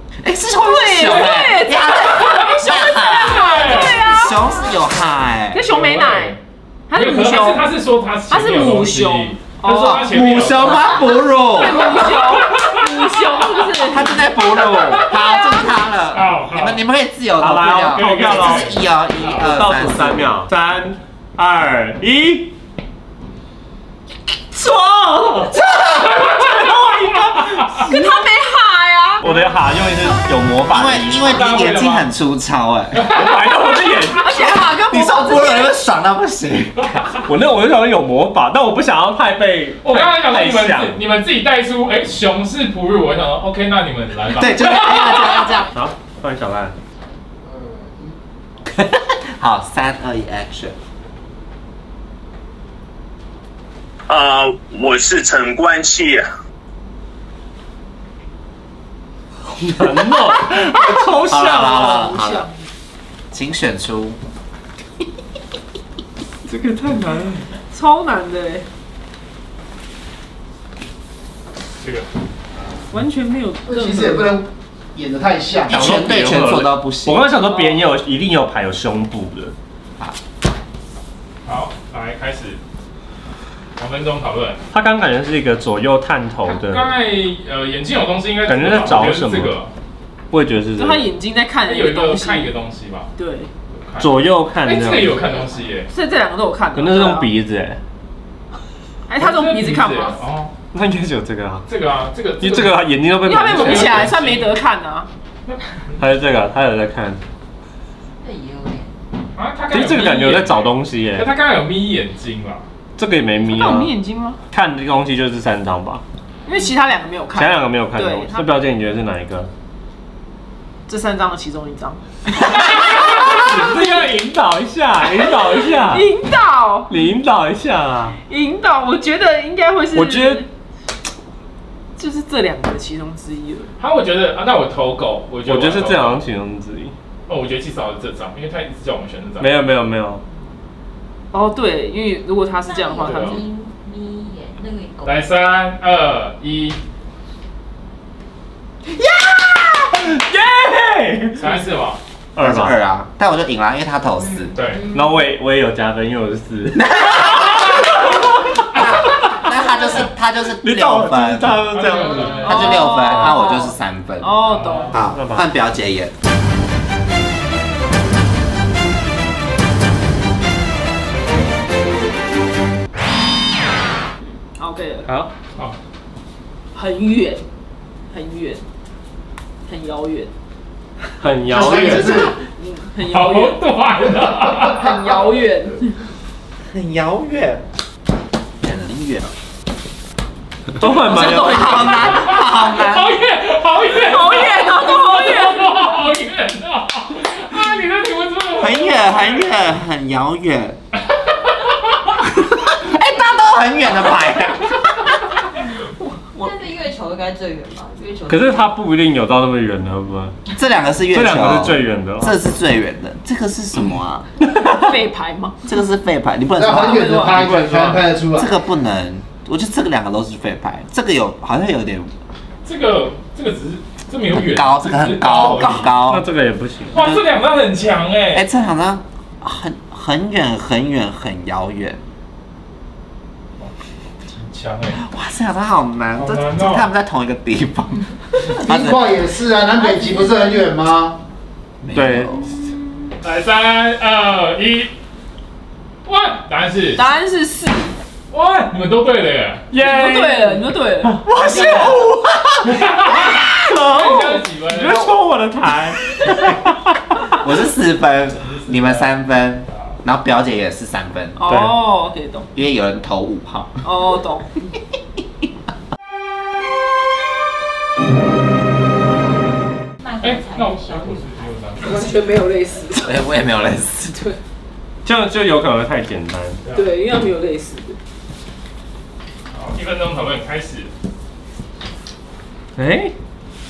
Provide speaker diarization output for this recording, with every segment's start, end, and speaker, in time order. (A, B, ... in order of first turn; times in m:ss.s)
0:00.2-0:05.7 A
0:00.6-0:04.5 B
0:03.3-0:04.0 C
0:04.8-0:05.1 D
0:05.5-0:06.4 B
0:05.7-0:06.4 C
0:06.9-0:07.8 B
0:06.9-0:11.0 C
0:08.3-0:10.1 B
0:09.7-0:12.4 A
0:11.5-0:14.3 B
0:12.1-0:12.8 C
0:13.8-0:20.3 A
0:16.1-0:16.8 C
0:17.4-0:18.8 E
0:18.0-0:18.7 C
0:19.4-0:22.6 E
0:24.5-0:25.6 E
0:25.5-0:26.4 A
0:26.1-0:28.1 E
0:27.7-0:29.3 B
0:29.2-0:31.4 E
0:30.7-0:33.1 A
0:31.4-0:32.1 C
0:33.0-0:33.7 C
0:33.1-0:34.2 E
0:34.0-0:35.8 B
0:34.3-0:37.0 A
0:37.3-0:41.0 E
0:39.8-0:45.6 C
0:44.3-0:45.7 A
0:45.7-0:46.8 E
0:48.7-0:50.8 A
0:54.1-0:56.3 F
0:59.4-1:02.1 E
1:01.3-1:02.5 A
1:01.9-1:02.5 B
1:03.3-1:04.2 A
1:06.5-1:07.5 E
1:07.7-1:08.7 B
1:12.9-1:14.4 B
1:13.7-1:15.9 G
1:15.7-1:19.5 E
1:15.7-1:17.2 A
1:17.5-1:17.8 B
1:21.4-1:22.6 C
1:23.8-1:24.6 C
1:24.7-1:27.0 E
1:26.4-1:29.7 C
1:28.5-1:29.6 E
1:30.3-1:31.1 E
1:30.8-1:32.6 B
1:31.7-1:33.1 C
1:33.2-1:33.5 B
1:33.7-1:34.1 C
1:34.0-1:35.4 E
1:34.6-1:35.9 C
1:35.9-1:37.3 B
1:36.8-1:37.8 E
1:39.1-1:40.2 B
1:39.2-1:40.5 C
1:40.7-1:41.7 E
1:41.7-1:42.8 C
1:42.4-1:44.2 E
1:43.2-1:45.1 B
1:43.5-1:44.5 C
1:46.0-1:47.2 E
1:48.2-1:49.0 D
1:49.4-1:52.6 C
1:49.7-1:51.3 E
1:53.0-1:53.9 E
1:53.5-1:54.4 B
1:54.5-1:56.0 E
1:56.5-1:58.6 B
1:57.3-1:59.5 E
2:00.9-2:02.9 B
2:02.7-2:06.1 E
2:02.9-2:03.6 C
2:05.6-2:06.9 B
2:06.9-2:08.2 E
2:08.2-2:10.5 B
2:09.9-2:10.4 E
2:12.0-2:13.7 B
2:13.8-2:16.2 C
2:15.4-2:16.9 E
2:17.3-2:19.5 C
2:19.4-2:20.2 E
2:21.3-2:23.4 B
2:22.6-2:25.3 D
2:23.1-2:23.4 C
2:25.1-2:26.8 C
2:29.0-2:29.9 A
2:29.9-2:31.6 E
2:31.4-2:32.0 C
2:32.4-2:32.8 E
2:32.4-2:34.6 A
2:34.5-2:34.8 C
2:34.6-2:35.2 D
2:34.9-2:38.6 E
2:36.7-2:41.7 A
2:39.2-2:39.5 E
2:40.6-2:42.7 E
2:41.7-2:43.1 C
2:42.4-2:44.4 A
2:42.4-2:45.0 B
2:44.4-2:45.0 C
2:44.9-2:46.1 A
2:45.1-2:45.5 E
2:54.6-2:55.1 B
2:55.1-2:55.3 E
2:56.7-2:57.4 B
2:58.1-2:58.6 B
2:59.7-3:00.3 B
3:01.2-3:02.3 E
3:01.4-3:02.4 G
3:02.0-3:03.7 B
3:03.1-3:04.8 C
3:04.6-3:06.0 B
3:06.7-3:07.6 A
3:08.6-3:09.3 A
3:10.8-3:11.9 E
3:10.9-3:12.3 B
3:11.0-3:13.2 A
3:12.1-3:19.5 C
3:13.8-3:15.8 B
3:18.6-3:20.8 A
3:22.3-3:25.3 A
3:26.3-3:28.7 D
3:28.3-3:30.4 E
3:30.5-3:34.3 A
3:31.1-3:32.4 E
3:34.5-3:35.7 B
3:35.7-3:37.4 A
3:36.6-3:38.5 G
3:37.0-3:37.3 B
3:37.3-3:38.0 E
3:38.3-3:42.1 A
3:42.6-3:45.9 C
3:44.3-3:46.2 A
3:46.1-3:47.0 E
3:46.9-3:48.4 C
3:47.0-3:47.2 A
3:48.3-3:52.0 A
3:54.3-3:55.0 C
3:55.0-3:59.2 A
3:56.2-3:56.9 C
3:58.5-4:01.2 G
3:59.8-4:00.6 D
4:01.8-4:02.6 A
4:01.9-4:02.3 E
4:03.2-4:04.9 C
4:06.0-4:07.0 C
4:07.0-4:08.0 B
4:08.3-4:09.7 C
4:09.7-4:12.1 E
4:09.8-4:12.0 B
4:11.3-4:13.6 A
4:12.8-4:13.3 C
4:13.5-4:16.6 E
4:13.9-4:15.1 C
4:16.1-4:16.4 A
4:17.3-4:21.4 A
4:18.5-4:19.1 C
4:21.4-4:22.5 B
4:21.5-4:21.8 E
4:22.6-4:23.8 A
4:23.8-4:24.6 B
4:30.0-4:32.1 D
4:30.2-4:32.0 C
4:31.8-4:33.2 B
4:33.0-4:34.3 A
4:35.0-4:36.6 E
4:36.7-4:38.0 B
4:39.5-4:40.9 C
4:42.8-4:43.1 E